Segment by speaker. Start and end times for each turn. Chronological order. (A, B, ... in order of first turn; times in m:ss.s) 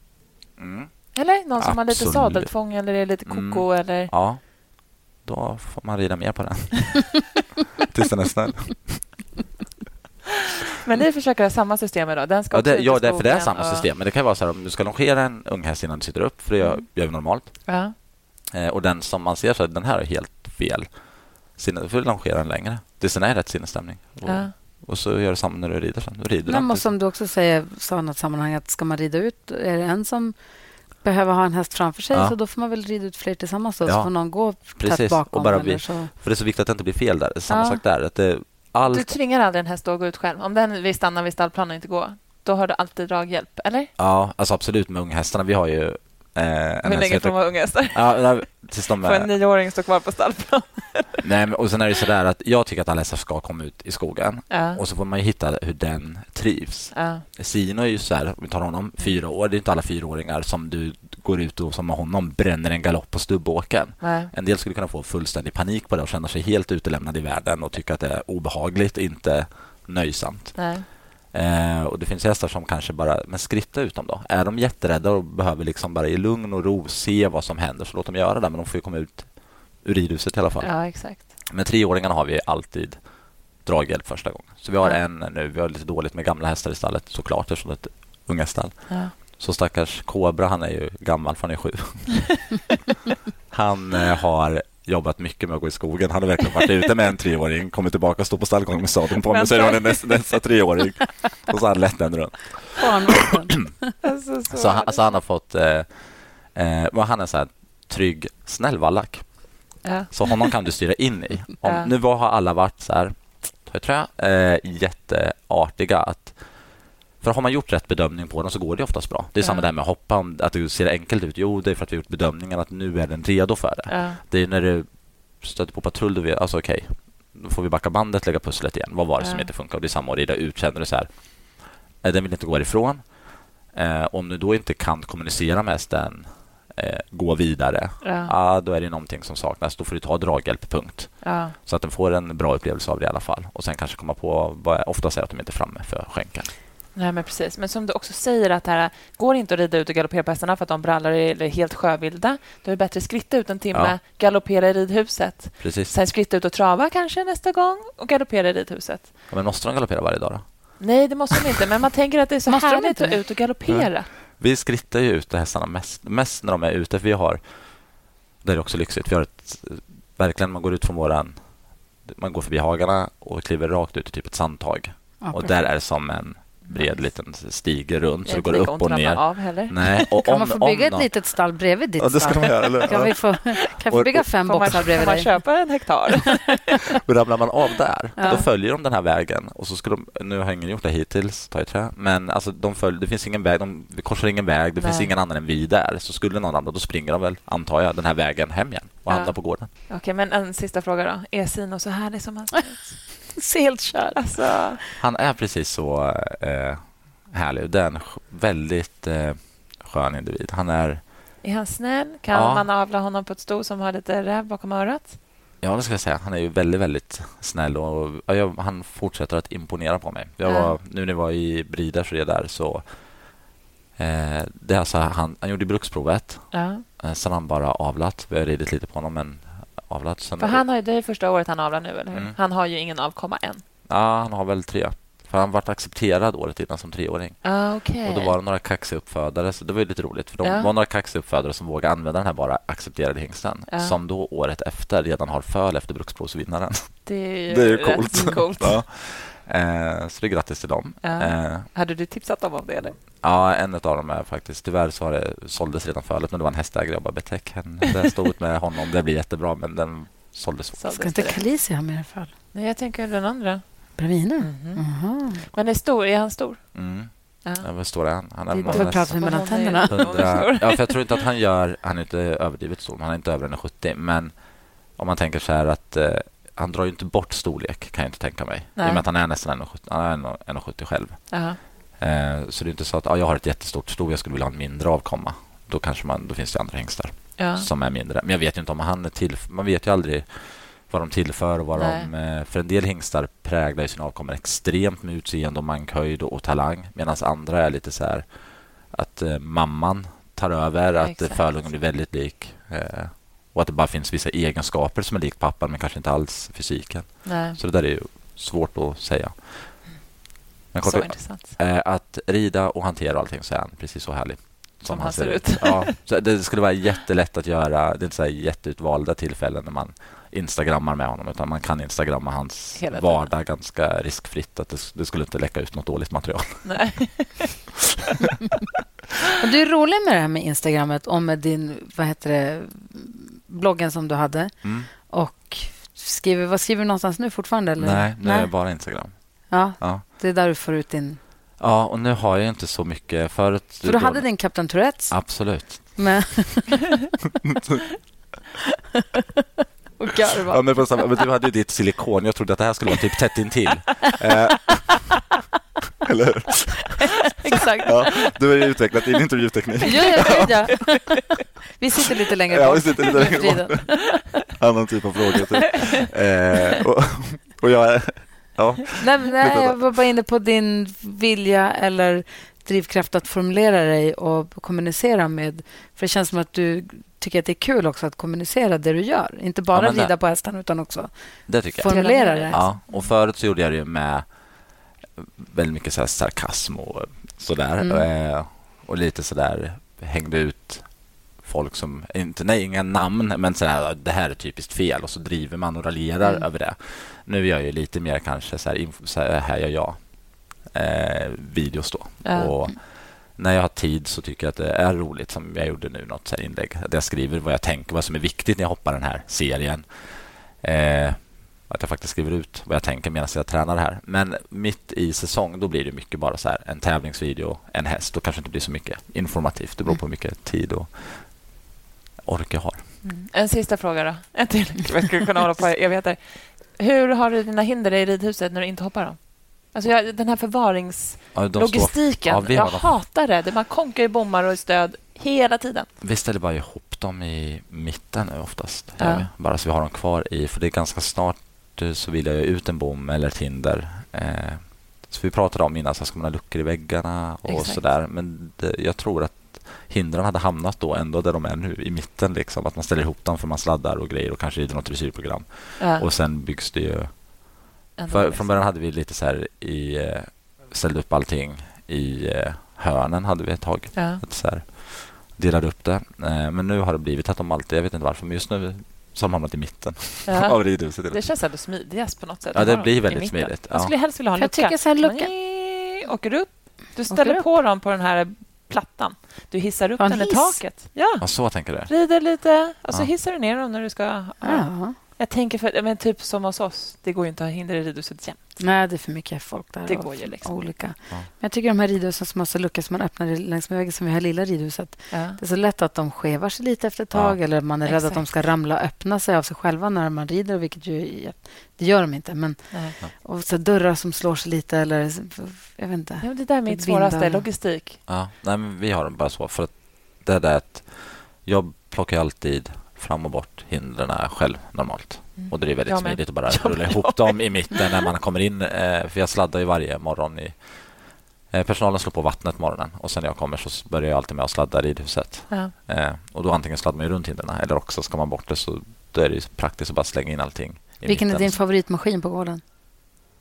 0:00.6-0:02.5 A
0:01.1-0:04.1 B
0:03.2-0:07.2 A
0:07.9-0:09.1 A
0:10.7-0:13.9 B
0:12.5-0:17.8 A
0:17.7-0:17.9 B
0:18.5-0:20.9 A
0:21.5-0:26.9 A
0:24.2-0:24.5 B
0:26.5-0:30.4 C
0:31.0-0:36.1 C
0:33.8-0:39.1 A
0:37.5-0:37.8 B
0:38.8-0:43.9 B
0:44.0-0:49.3 A
0:46.8-0:51.2 B
0:51.2-1:10.8 A
0:54.5-0:54.8 B
0:56.9-0:57.2 B
1:04.0-1:04.3 B
1:10.6-1:10.8 B
1:11.3-1:23.0 A
1:20.6-1:21.2 B
1:23.6-1:32.4 A
1:33.5-1:42.9 A
1:39.2-1:40.4 B
1:42.8-1:43.9 C
1:44.0-1:45.2 B
1:44.5-1:49.5 A
1:49.8-1:50.5 B
1:50.1-1:56.4 A
1:51.6-1:51.9 B
1:57.2-2:13.1 A
1:59.4-1:59.6 B
2:03.9-2:04.2 B
2:09.2-2:09.5 B
2:13.7-2:26.5 A
2:18.0-2:18.3 B
2:21.2-2:21.5 B
2:26.9-2:39.1 B
2:35.6-2:35.9 A
2:39.3-2:40.8 A
2:40.8-2:44.1 B
2:42.5-2:43.2 C
2:43.7-2:47.9 A
2:48.4-2:51.4 A
2:52.0-3:01.1 A
2:55.2-2:55.6 C
2:56.6-2:57.0 B
2:58.2-3:00.1 B
3:00.2-3:05.4 C
3:02.0-3:04.7 A
3:04.4-3:06.6 B
3:07.0-3:19.7 A
3:08.2-3:08.4 C
3:08.2-3:08.4 B
3:14.8-3:15.1 B
3:19.1-3:23.4 B
3:23.3-3:24.4 C
3:24.1-3:24.8 B
3:25.0-3:31.0 A
3:31.4-3:35.2 B
3:32.3-3:32.7 A
3:35.6-3:42.9 A
3:40.4-3:40.7 B
3:44.0-3:50.6 A
3:46.5-3:46.8 B
3:50.4-3:53.6 B
3:53.9-4:11.7 A
3:57.4-3:58.3 B
4:00.4-4:00.7 B
4:03.7-4:04.0 B
4:07.0-4:08.8 B
4:11.0-4:13.0 B
4:13.2-4:20.8 A
4:20.8-4:21.4 B
4:20.9-4:22.3 C
4:22.5-4:23.6 B
4:24.0-4:25.4 C
4:24.4-4:24.8 B
4:25.4-4:26.8 B
4:26.7-4:58.2 A
4:27.4-4:27.7 B
4:28.4-4:31.2 B
4:28.5-4:30.1 C
4:38.8-4:39.0 B
4:41.3-4:41.6 B
4:47.4-4:47.7 B
4:51.8-4:52.1 B
4:58.9-5:10.0 A
5:01.0-5:01.7 B
5:07.2-5:07.6 B
5:10.7-5:26.7 A
5:10.8-5:11.6 B
5:14.9-5:16.0 B
5:22.8-5:23.3 B
5:26.6-5:27.6 B
5:29.4-5:38.5 C
5:34.6-5:34.9 A
5:37.8-5:40.0 A
5:39.5-5:41.2 C
5:41.6-5:46.0 A
5:43.8-5:46.8 C
5:50.0-5:50.8 C
5:50.5-5:55.2 A
5:56.0-5:57.1 A
5:57.4-5:58.0 B
5:57.5-5:57.9 C
5:57.8-6:00.7 A
5:59.8-6:01.2 C
6:00.2-6:01.1 B
6:01.8-6:03.8 C
6:02.5-6:09.8 A
6:09.0-6:22.7 C
6:19.7-6:20.1 A
6:21.5-6:24.3 A
6:21.8-6:23.1 B
6:25.2-7:01.6 A
6:27.8-6:28.0 C
6:42.2-6:42.7 B
7:02.2-7:02.9 A
7:03.0-7:15.9 B
7:11.3-7:12.9 A
7:16.0-7:37.6 A
7:19.0-7:19.3 B
7:27.4-7:27.8 B
7:35.8-7:36.0 B
7:38.0-7:38.5 B
7:38.1-7:51.2 A
7:43.9-7:44.2 B
7:50.3-8:08.8 B
7:52.5-7:53.9 A
7:54.3-7:55.3 C
7:57.1-7:57.5 C
8:00.0-8:00.6 C
8:01.2-8:01.9 A
8:04.4-8:05.0 C
8:08.6-8:27.4 C
8:09.8-8:10.7 B
8:15.1-8:15.4 B
8:17.1-8:17.4 A
8:17.8-8:18.3 B
8:22.7-8:23.0 B
8:26.2-8:28.0 B
8:28.1-8:51.5 A
8:35.4-8:38.1 B
8:51.0-8:52.6 C